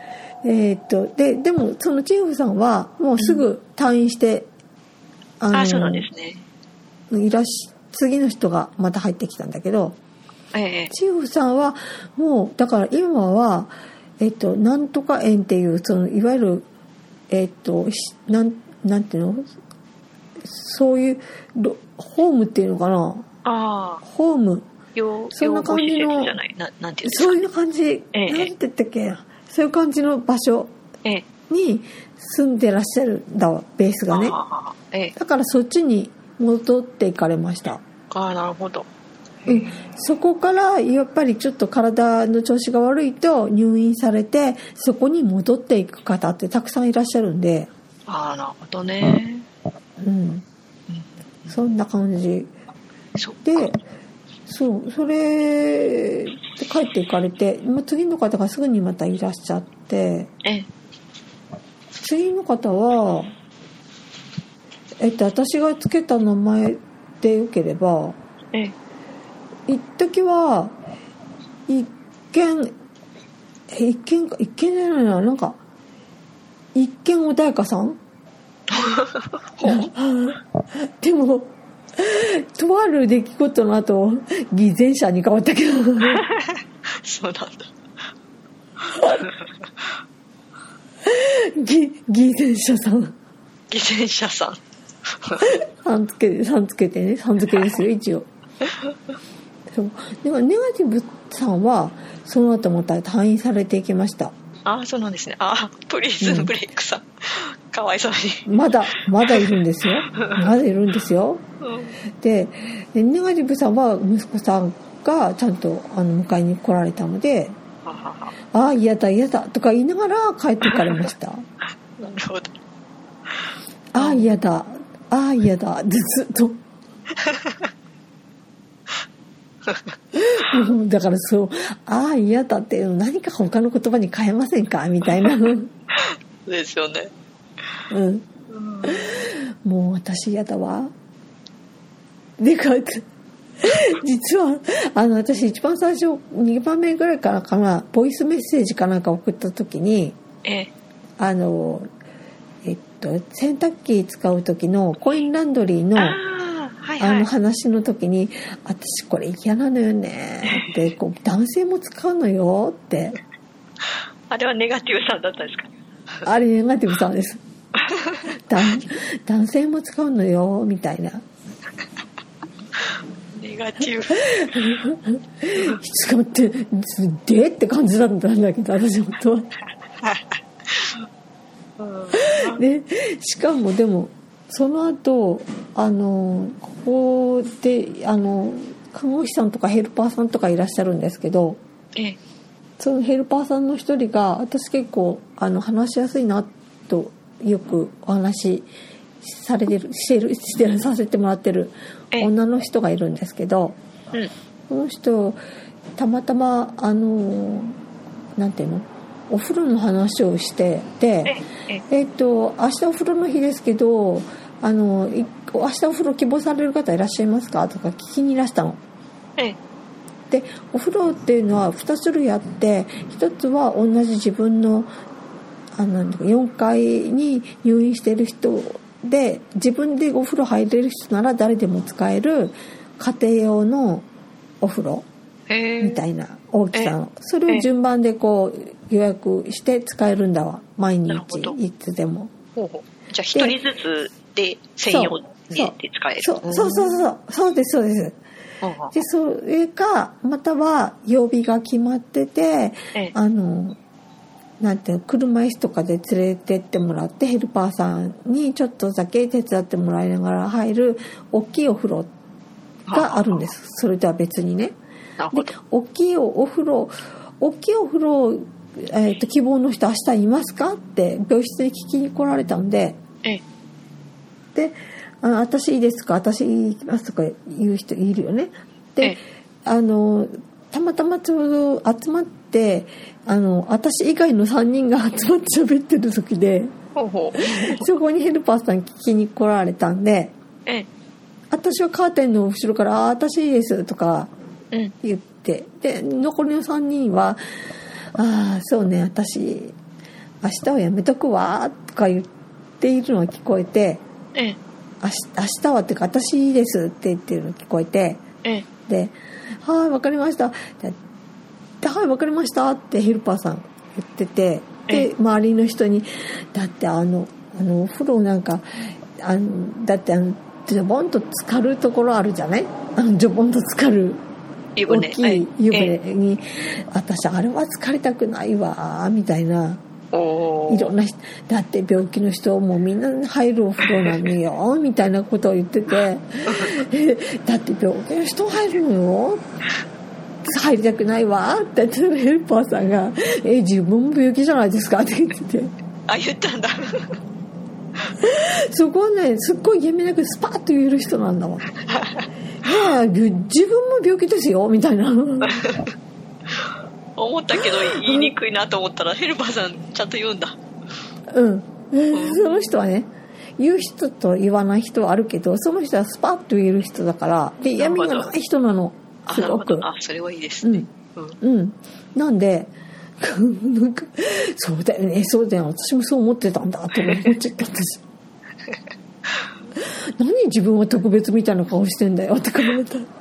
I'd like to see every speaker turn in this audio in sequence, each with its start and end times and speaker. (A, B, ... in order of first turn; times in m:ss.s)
0:00.4-0:04.5 A
0:03.2-0:03.4 B
0:05.4-0:06.1 A
0:05.5-0:06.4 B
0:07.1-0:10.0 A
0:10.5-0:10.9 B
0:10.9-0:16.7 A
0:17.3-0:19.4 A
0:20.4-0:23.3 A
0:23.4-0:24.0 B
0:24.0-0:24.7 A
0:25.0-0:27.5 B
0:25.3-0:26.4 A
0:27.0-0:30.7 A
0:28.1-0:28.5 B
0:31.5-0:34.4 A
0:34.1-0:35.1 B
0:35.2-0:37.8 A
0:38.1-0:38.9 B
0:39.4-0:39.8 B
0:39.5-0:47.7 A
0:48.1-0:49.5 B
0:50.0-0:50.4 A
0:51.5-0:52.5 A
0:53.2-0:53.7 B
0:53.4-0:53.8 A
0:54.5-1:00.3 A
1:02.0-1:03.3 A
1:05.0-1:08.2 A
1:09.7-1:10.7 A
1:11.7-1:12.7 A
1:13.7-1:15.6 A
1:16.8-1:18.0 A
1:18.7-1:19.8 B
1:19.6-1:26.2 A
1:26.0-1:27.7 B
1:29.0-1:29.3 A
1:29.0-1:29.9 B
1:31.0-1:33.1 A
1:33.7-1:35.5 B
1:35.8-1:38.3 A
1:38.6-1:38.9 B
1:39.7-1:44.3 A
1:44.6-1:48.5 B
1:46.2-1:46.5 A
1:48.5-1:51.4 A
1:49.2-1:49.6 B
1:50.2-1:50.4 B
1:51.6-1:52.0 B
1:52.2-1:57.6 A
1:57.8-1:58.3 B
1:58.5-2:01.4 A
2:00.7-2:01.1 B
2:02.0-2:02.5 B
2:03.9-2:06.6 A
2:04.0-2:04.2 B
2:07.2-2:07.7 B
2:09.6-2:10.0 B
2:10.1-2:15.7 A
2:15.9-2:17.1 B
2:17.9-2:18.3 A
2:18.5-2:19.2 B
2:18.8-2:20.9 A
2:22.4-2:23.1 A
2:23.6-2:30.2 A
2:30.4-2:30.7 B
2:31.2-2:31.9 A
2:32.6-2:36.2 A
2:36.0-2:37.3 B
2:37.0-2:43.2 A
2:40.4-2:40.8 B
2:44.3-2:45.7 B
2:46.2-2:47.4 A
2:47.8-2:48.3 B
2:48.4-2:51.2 A
2:53.3-2:54.6 B
2:54.1-2:59.5 A
3:00.0-3:01.1 B
3:01.8-3:02.6 B
3:02.1-3:11.6 A
3:12.8-3:18.7 A
3:19.2-3:23.8 A
3:24.7-3:25.4 A
3:26.0-3:27.7 A
3:28.4-3:38.8 A
3:31.3-3:31.8 B
3:40.3-3:44.9 A
3:45.8-3:54.1 A
3:54.6-3:55.1 A
3:55.5-3:56.0 B
3:55.8-4:02.3 A
4:01.1-4:01.6 B
4:02.6-4:07.0 B
4:04.9-4:08.2 A
4:08.6-4:08.9 B
4:08.9-4:13.8 A
4:14.6-4:22.1 A
4:22.9-4:23.4 B
4:22.9-4:24.8 A
4:25.2-4:25.5 B
4:25.3-4:33.0 A
4:34.6-4:46.7 A
4:47.0-4:47.9 B
4:47.4-4:50.3 A
4:51.5-4:54.3 A
4:55.0-4:57.4 A
4:58.2-4:59.8 A
5:00.4-5:02.3 A
5:02.8-5:04.0 A
5:05.0-5:08.2 A
5:08.9-5:11.0 A
5:11.8-5:18.6 A
5:19.2-5:24.2 A
5:24.8-5:25.9 B
5:24.9-5:29.8 A
5:30.1-5:31.0 B
5:30.7-5:39.4 A
5:40.4-5:45.7 A
5:46.1-5:47.2 B
5:48.2-5:51.7 A
5:51.8-5:52.3 B
5:52.6-5:55.7 A
5:55.4-5:55.9 B
5:56.5-6:00.6 B
5:58.0-5:58.3 A
6:01.3-6:09.9 A
6:02.1-6:02.8 B
6:07.8-6:08.3 B
6:09.3-6:11.4 B
6:10.6-6:10.9 A
6:11.4-6:18.0 A
6:19.8-6:23.1 A